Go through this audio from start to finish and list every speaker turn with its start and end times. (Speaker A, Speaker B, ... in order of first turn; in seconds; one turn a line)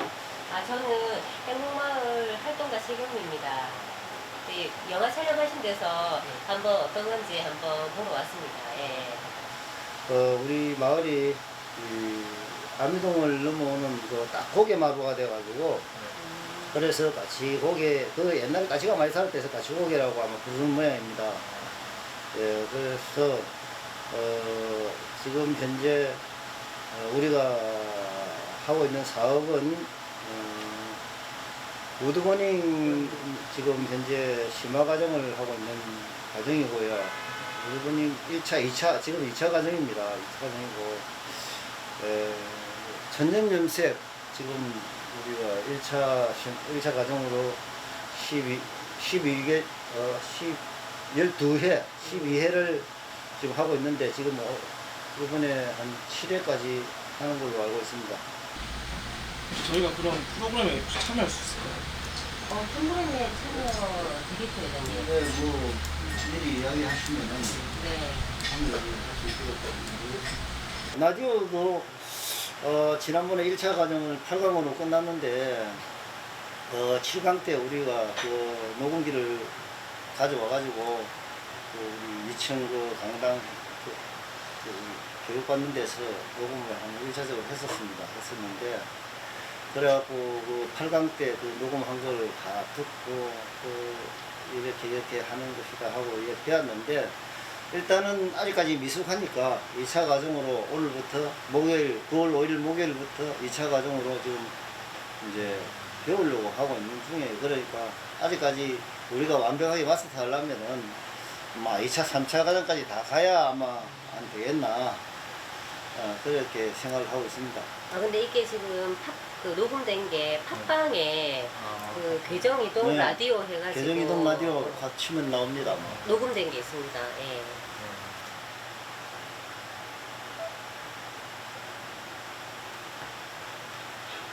Speaker A: 0.5-3.8
Speaker A: 4.5-9.3
Speaker B: 10.1-15.9
Speaker B: 16.7-21.5
Speaker B: 22.3-23.5
Speaker B: 24.1-26.2
Speaker B: 26.9-31.0
Speaker B: 32.0-58.2
Speaker C: 59.6-61.8
Speaker A: 62.5-65.1
Speaker B: 64.9-67.8
Speaker A: 67.7-68.3
Speaker B: 68.3-70.3
Speaker B: 70.9-75.8
Speaker B: 76.7-81.1
Speaker B: 81.7-84.0
Speaker B: 84.6-88.9
Speaker B: 89.5-104.5
Speaker B: 105.2-115.0
Speaker B: 115.9-117.7
Speaker A: 117.9-124.8
Speaker B: 122.8-126.0
Speaker A: 126.0-127.6